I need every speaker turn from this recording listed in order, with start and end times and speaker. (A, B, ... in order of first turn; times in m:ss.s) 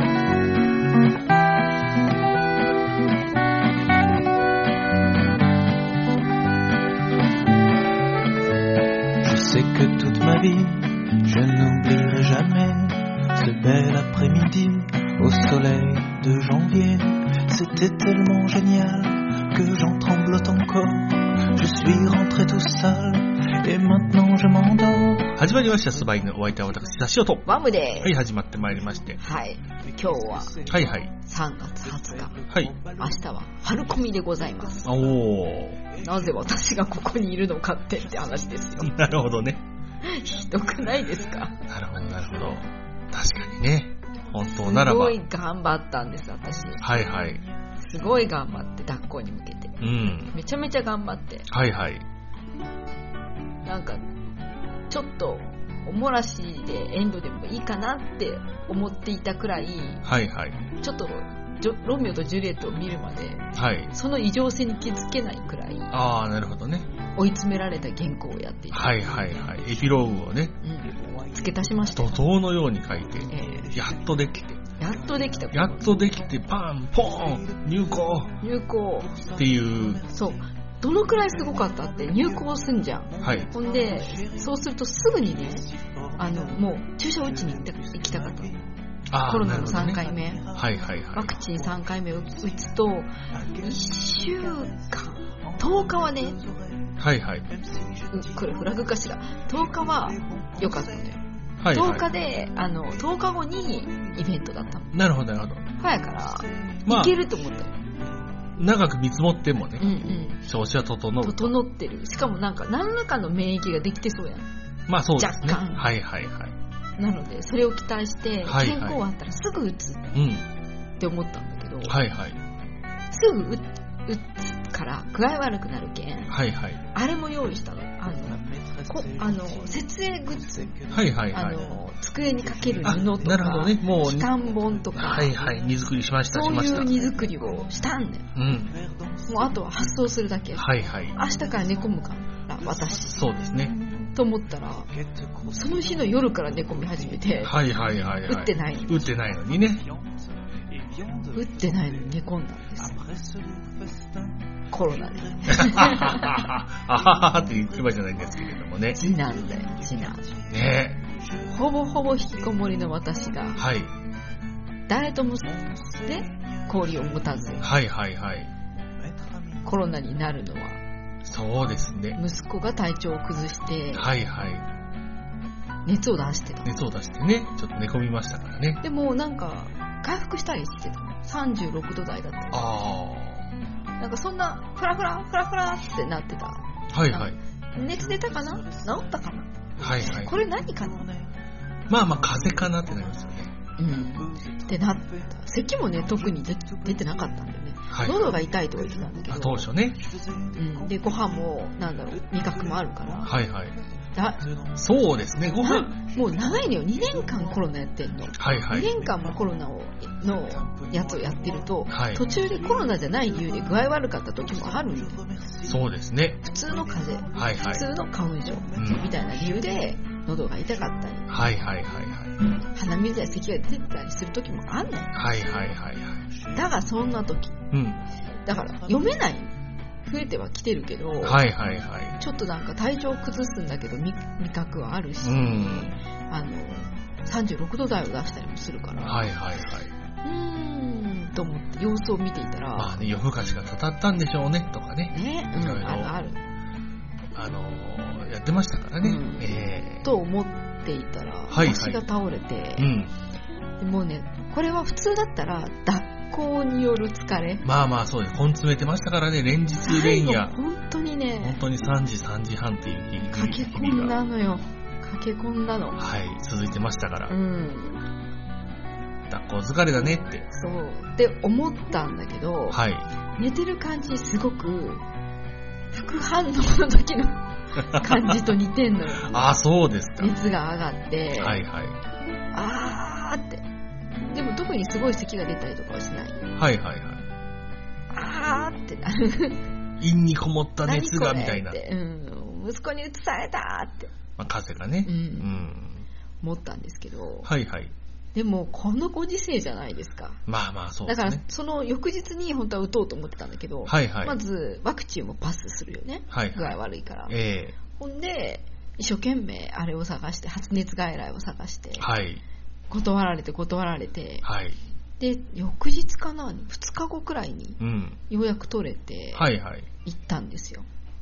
0:09.2-0:31.2 A
0:25.4-0:29.2 B
0:27.5-0:28.2 C
0:29.2-0:30.6 C
0:30.7-0:31.1 B
0:31.2-0:32.4 C
0:31.8-0:36.9 A
0:33.0-0:34.9 C
0:34.8-0:35.8 B
0:36.0-0:38.9 C
0:37.9-0:39.5 A
0:38.8-0:39.6 B
0:40.0-0:41.7 C
0:40.0-0:41.4 A
0:41.7-0:45.2 B
0:44.5-0:46.8 C
0:46.8-0:47.5 A
0:46.8-0:47.4 B
0:47.8-0:51.5 C
0:49.8-0:50.3 B
0:51.5-0:52.1 B
0:53.6-0:54.0 C
0:54.9-1:00.0 C
1:00.0-1:00.6 B
1:00.8-1:05.9 C
1:03.5-1:03.9 B
1:05.9-1:06.9 B
1:07.2-1:09.1 C
1:08.7-1:10.6 B
1:09.0-1:10.1 A
1:10.6-1:12.1 C
1:10.8-1:12.4 A
1:12.0-1:14.6 B
1:13.0-1:28.7 A
1:13.3-1:13.7 C
1:14.8-1:16.0 C
1:15.5-1:18.3 B
1:18.4-1:19.1 C
1:19.4-1:20.0 B
1:20.1-1:25.6 C
1:23.2-1:23.5 B
1:26.2-1:28.5 C
1:29.1-1:30.0 B
1:29.2-1:30.4 C
1:29.3-1:44.5 A
1:30.5-1:31.3 B
1:31.1-1:36.4 C
1:37.0-1:37.5 B
1:38.1-1:41.2 C
1:41.6-1:42.1 B
1:41.7-1:44.9 C
1:44.9-1:45.6 B
1:45.8-1:47.7 C
1:45.8-1:48.5 A
1:46.9-1:47.1 B
1:48.6-1:51.6 B
1:49.8-1:50.4 C
1:51.2-1:54.5 C
1:54.9-1:56.6 B
1:55.2-1:55.9 C
1:57.0-2:00.2 C
1:58.4-1:59.0 B
2:00.1-2:00.5 B
2:01.0-2:02.0 C
2:01.9-2:02.4 B
2:03.1-2:06.4 C
2:06.3-2:06.8 B
2:06.9-2:10.7 C
2:08.2-2:20.1 A
2:10.9-2:11.6 B
2:11.3-2:15.4 C
2:12.8-2:14.3 B
2:15.0-2:17.0 B
2:16.3-2:18.3 C
2:18.4-2:18.8 B
2:19.3-2:24.9 C
2:20.6-2:21.2 B
2:20.7-2:23.8 A
2:23.1-2:23.7 B
2:24.8-2:43.8 A
2:25.4-2:27.6 C
2:27.4-2:29.8 B
2:28.2-2:29.1 C
2:31.4-2:33.0 C
2:34.7-2:36.5 C
2:35.5-2:39.0 B
2:39.0-2:40.2 C
2:40.5-2:41.0 B
2:41.5-2:43.6 C
2:43.6-2:43.9 B
2:44.9-2:47.7 C
2:45.4-2:47.7 A
2:47.6-2:48.5 B
2:49.0-2:50.0 A
2:49.6-2:50.8 C
2:51.2-2:52.2 B
2:52.2-2:54.1 C
2:53.9-2:54.7 B
2:55.8-2:56.7 C
2:56.6-2:58.8 B
2:58.8-3:02.7 C
3:02.5-3:03.5 B
3:04.0-3:11.1 C
3:06.9-3:07.4 B
3:07.8-3:17.5 A
3:09.8-3:10.3 B
3:11.9-3:13.5 B
3:13.8-3:19.7 C
3:17.9-3:18.4 B
3:18.0-3:29.6 A
3:19.3-3:20.0 B
3:20.6-3:23.3 C
3:23.2-3:23.8 B
3:24.1-3:24.4 C
3:24.8-3:25.9 B
3:25.6-3:35.2 C
3:28.4-3:28.9 B
3:30.1-3:41.0 A
3:31.9-3:32.2 B
3:35.6-3:36.4 B
3:36.4-3:41.3 C
3:37.4-3:37.9 B
3:38.8-3:39.0 B
3:41.3-3:42.3 B
3:41.7-3:42.0 A
3:42.8-3:45.1 C
3:45.2-3:46.3 B
3:46.5-3:47.6 C
3:47.7-3:48.0 B
3:48.4-3:49.5 C
3:50.0-3:51.5 C
3:51.2-3:52.2 B
3:52.2-3:59.3 C
3:55.2-3:56.0 B
3:59.0-3:59.9 B
4:00.2-4:03.0 C
4:02.8-4:06.2 B
4:05.1-4:06.4 C
4:07.3-4:10.1 B
4:09.0-4:12.9 C
4:11.5-4:12.0 B
4:12.8-4:13.1 B
4:13.8-4:17.7 C
4:17.6-4:20.6 B
4:19.8-4:21.6 C
4:21.4-4:24.1 B
4:23.3-4:26.0 C
4:26.0-4:27.3 B
4:27.3-4:28.0 C
4:29.3-4:30.5 B
4:30.5-4:32.8 C
4:32.7-4:33.1 B
4:33.4-4:35.0 C
4:35.9-4:39.5 C
4:37.8-4:38.4 B
4:39.2-4:40.3 B
4:40.2-4:41.6 C
4:41.4-4:42.0 B
4:42.5-4:43.6 C
4:44.3-4:46.5 C
4:46.6-4:47.2 B
4:48.1-4:49.6 C
4:50.0-4:51.8 B
4:50.8-4:54.1 C
4:54.4-4:56.1 B
4:55.0-4:55.5 C
4:56.4-4:57.5 C
4:57.4-4:57.9 B
4:58.4-5:00.4 C
5:00.5-5:01.4 B
5:01.1-5:07.4 C
5:03.9-5:04.4 B
5:06.3-5:07.8 B
5:07.9-5:12.1 C
5:12.0-5:12.4 B
5:12.9-5:14.5 C
5:14.4-5:14.8 B
5:15.2-5:19.5 C
5:17.8-5:18.2 B
5:19.4-5:19.9 B
5:20.0-5:20.9 C